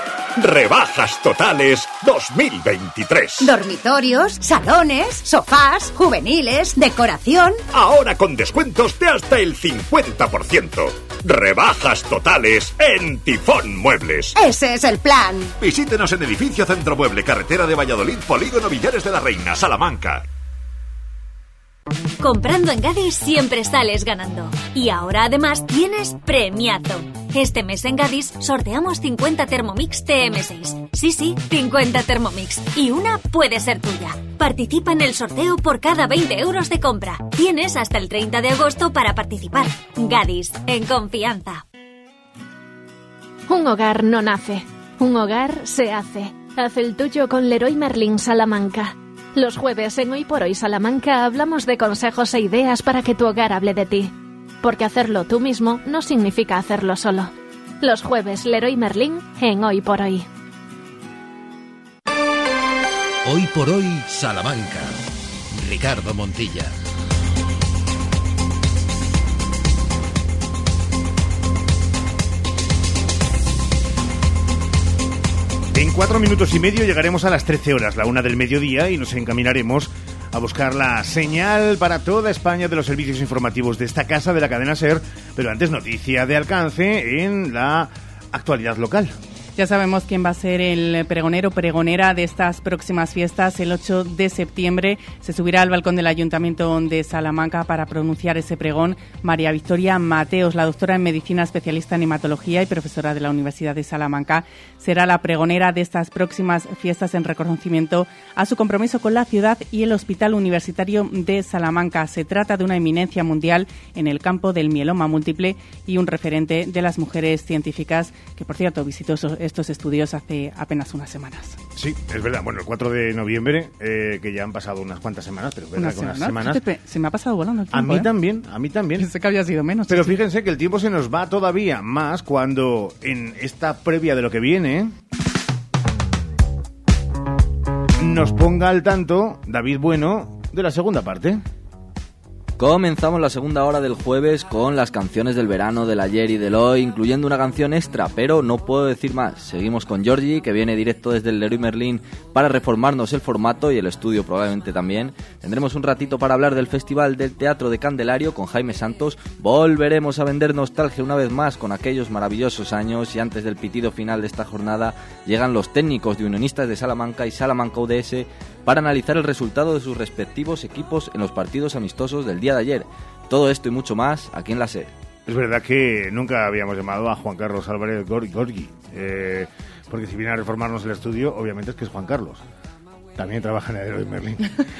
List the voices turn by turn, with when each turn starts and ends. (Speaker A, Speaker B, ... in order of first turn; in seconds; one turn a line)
Speaker A: 0.3-3.5
Speaker B: 3.4-7.5
Speaker A: 7.7-14.4
Speaker B: 14.3-15.5
Speaker A: 15.6-20.2
Speaker C: 22.2-41.6
Speaker D: 43.5-60.3
Speaker E: 63.2-65.0
Speaker E: 65.5-66.7
Speaker F: 75.7-89.1
Speaker G: 89.5-121.6
Speaker F: 121.8-126.6
Speaker G: 125.8-128.1
Speaker F: 127.7-129.1
Speaker G: 129.0-130.1
Speaker F: 129.9-134.9
Speaker F: 138.0-141.4
Speaker H: 142.6-174.9
Speaker F: 175.2-182.4
Speaker F: 183.2-184.6